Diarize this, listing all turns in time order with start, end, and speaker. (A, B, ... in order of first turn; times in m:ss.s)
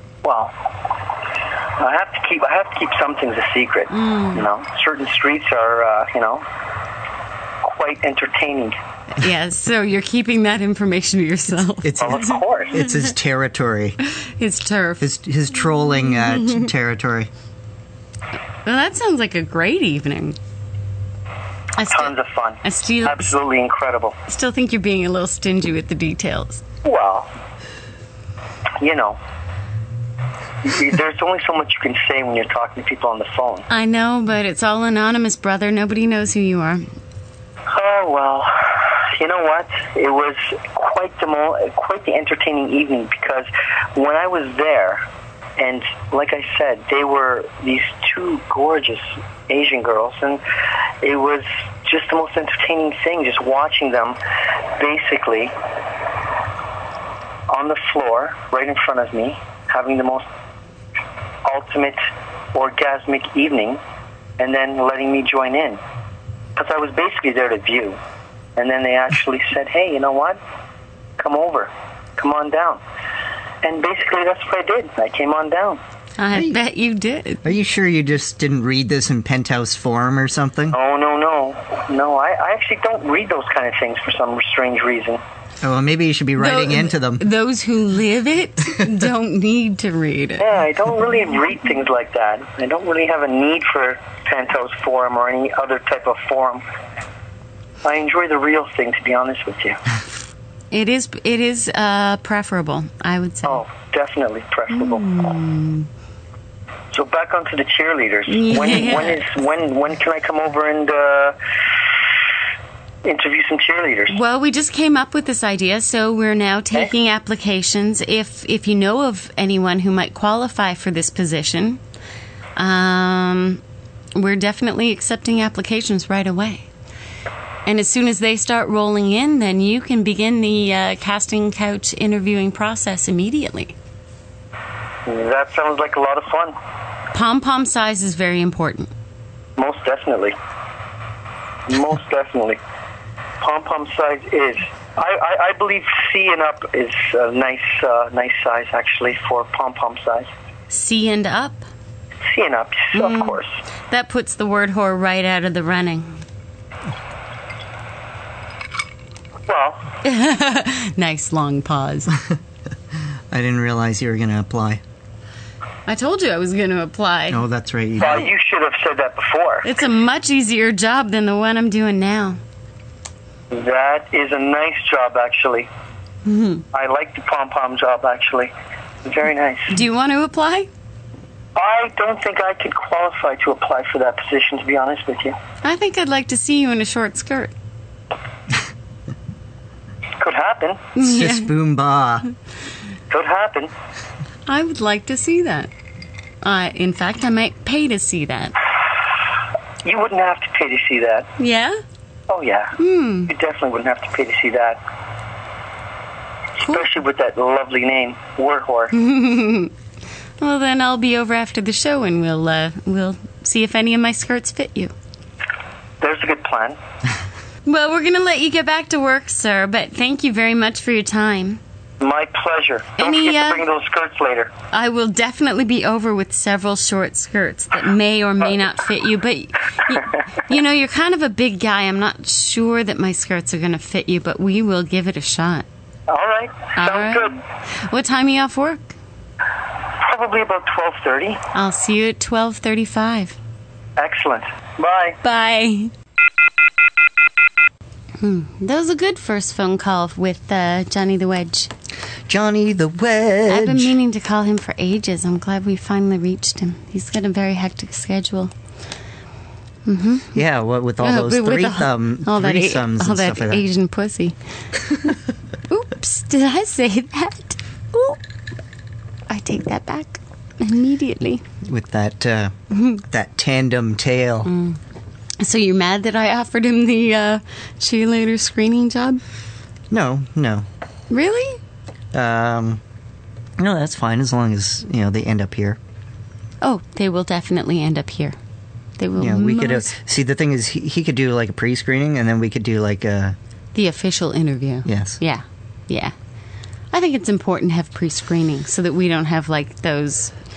0:00.2-0:00.5 A
0:01.8-0:06.4 A
0:03.9-0:04.4 B
0:07.6-0:08.8 A
0:09.2-0:12.4 B
0:11.8-0:14.0 C
0:12.0-0:12.8 A
0:14.2-0:15.1 B
0:15.0-0:17.3 C
0:18.6-0:20.4 B
0:21.8-0:23.3 B
0:21.9-0:24.2 A
0:24.3-0:26.6 B
0:26.8-0:27.3 A
0:28.8-0:29.2 A
0:30.6-0:33.7 A
0:33.7-0:36.9 B
0:37.7-0:45.0 A
0:45.6-0:50.4 A
0:51.0-0:54.2 A
0:54.8-0:55.5 A
0:57.5-1:00.2 A
1:01.4-1:02.0 A
1:02.5-1:03.8 A
1:04.4-1:05.8 A
1:06.6-1:08.0 A
1:08.6-1:10.4 A
1:11.2-1:12.8 A
1:13.6-1:15.8 A
1:16.2-1:17.4 B
1:17.4-1:20.8 C
1:20.7-1:25.2 A
1:25.6-1:27.2 C
1:26.4-1:30.5 B
1:30.4-1:36.6 A
1:37.8-1:39.8 A
1:40.7-1:43.6 B
1:43.5-1:45.0 A
1:44.7-1:45.9 B
1:46.9-1:51.4 A
1:48.3-1:49.2 B
1:53.0-1:54.2 A
1:54.1-2:01.8 B
2:02.6-2:03.6 B
2:04.2-2:06.7 B
2:07.7-2:13.8 B
2:15.1-2:16.6 A
2:17.1-2:18.9 B
2:19.6-2:20.4 A
2:21.7-2:22.6 A
2:23.4-2:30.3 A
2:30.7-2:31.7 B
2:32.3-2:33.5 A
2:32.9-2:36.2 B
2:39.5-2:39.8 A
2:40.0-2:42.2 B
2:43.3-2:44.8 C
2:45.9-2:47.4 B
2:47.3-2:48.2 C
2:48.0-2:49.7 A
2:49.6-2:52.4 B
2:53.5-2:55.7 A
2:56.3-2:56.6 B
2:56.7-2:58.5 A
2:59.0-2:59.7 A
2:59.7-3:00.7 B
3:01.6-3:05.4 A
3:05.6-3:07.5 B
3:10.2-3:10.9 A
3:11.0-3:11.5 B
3:11.0-3:12.3 C
3:13.1-3:13.7 A
3:14.5-3:15.7 B
3:16.4-3:18.6 B
3:19.8-3:21.3 A
3:21.4-3:21.8 B
3:22.3-3:24.8 A
3:22.8-3:23.3 B
3:26.6-3:28.9 A
3:28.9-3:29.7 B
3:30.4-3:34.9 B
3:36.0-3:36.8 A
3:37.6-3:41.6 B
3:42.0-3:44.5 A
3:43.0-3:43.6 B
3:44.7-3:55.7 B
3:56.1-3:57.4 A
3:56.8-3:59.0 B
4:00.0-4:01.4 A
4:01.5-4:03.4 B
4:04.0-4:05.2 A
4:05.2-4:05.9 B
4:08.2-4:11.7 B
4:12.3-4:14.0 C
4:13.5-4:18.5 B
4:19.9-4:20.4 B
4:20.3-4:23.6 C
4:21.0-4:24.4 B
4:25.7-4:28.2 B
4:29.3-4:31.4 B
4:31.6-4:34.5 C
4:32.7-4:33.0 B
4:34.5-4:34.8 B
4:35.4-4:39.2 B
4:39.9-4:40.7 C
4:41.1-4:41.6 B
4:42.1-4:42.8 C
4:43.6-4:45.8 C
4:46.6-4:48.4 B
4:49.0-4:50.0 B
4:49.2-4:53.4 C
4:53.7-4:56.1 B
4:54.9-4:55.2 C
4:56.9-5:00.4 B